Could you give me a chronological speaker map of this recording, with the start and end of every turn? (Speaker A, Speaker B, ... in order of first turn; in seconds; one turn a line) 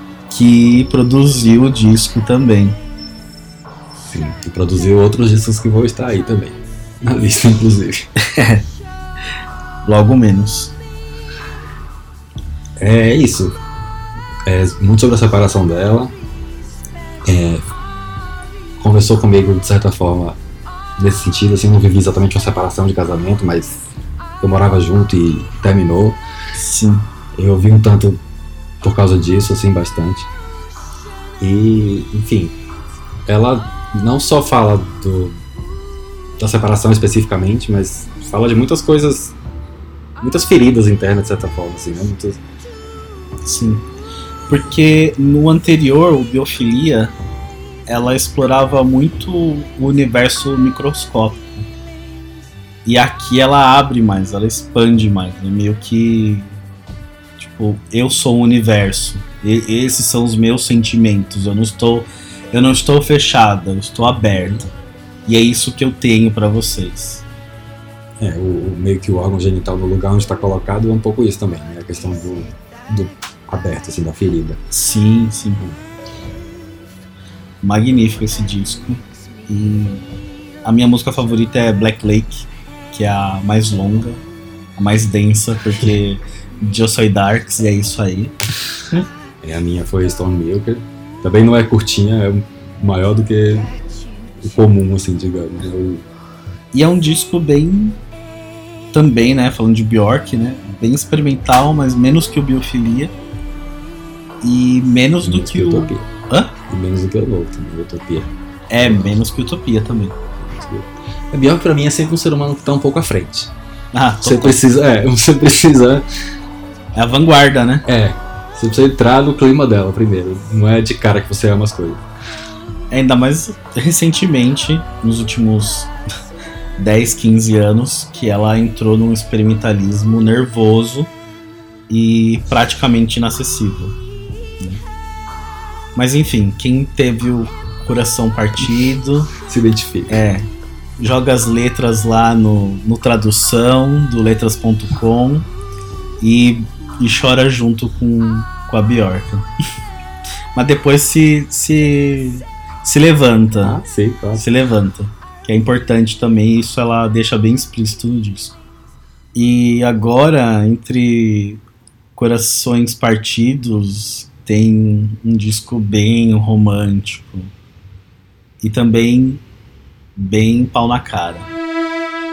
Speaker A: 0.3-2.8
Speaker B: 4.0-8.1
Speaker A: 8.3-8.6
Speaker A: 9.8-10.7
Speaker B: 12.8-13.6
Speaker B: 14.4-16.1
Speaker B: 17.2-17.7
Speaker B: 18.8-20.4
Speaker B: 21.0-23.9
Speaker B: 24.4-26.2
Speaker A: 26.5-27.1
Speaker B: 27.3-28.2
Speaker B: 28.8-30.3
Speaker B: 31.4-32.5
Speaker B: 33.2-35.4
Speaker B: 36.4-39.3
Speaker B: 40.2-42.4
Speaker A: 43.4-43.8
Speaker A: 44.5-47.1
Speaker A: 47.9-51.5
Speaker A: 52.8-56.5
Speaker A: 57.4-64.7
Speaker A: 65.2-67.2
Speaker B: 68.2-74.6
Speaker A: 74.7-75.8
Speaker A: 77.6-80.0
Speaker A: 80.6-84.2
Speaker A: 84.8-88.3
Speaker B: 89.4-93.7
Speaker B: 94.4-96.0
Speaker A: 96.7-98.0
Speaker A: 98.9-103.1
Speaker A: 104.4-106.5
Speaker B: 105.2-106.1
Speaker B: 106.7-109.2
Speaker A: 108.7-110.2
Speaker B: 110.4-113.5
Speaker A: 113.9-114.6
Speaker B: 114.2-116.1
Speaker A: 116.9-117.8
Speaker B: 117.8-122.0
Speaker A: 122.9-125.9
Speaker A: 126.8-131.1
Speaker A: 131.9-133.9
Speaker A: 135.9-139.3
Speaker B: 139.4-140.2
Speaker A: 140.1-140.5
Speaker A: 141.0-145.5
Speaker A: 146.2-149.5
Speaker A: 150.5-153.8
Speaker B: 153.6-154.4
Speaker A: 154.4-158.5
Speaker A: 159.3-161.6
Speaker A: 162.2-167.5
Speaker A: 168.6-169.4
Speaker A: 170.2-171.5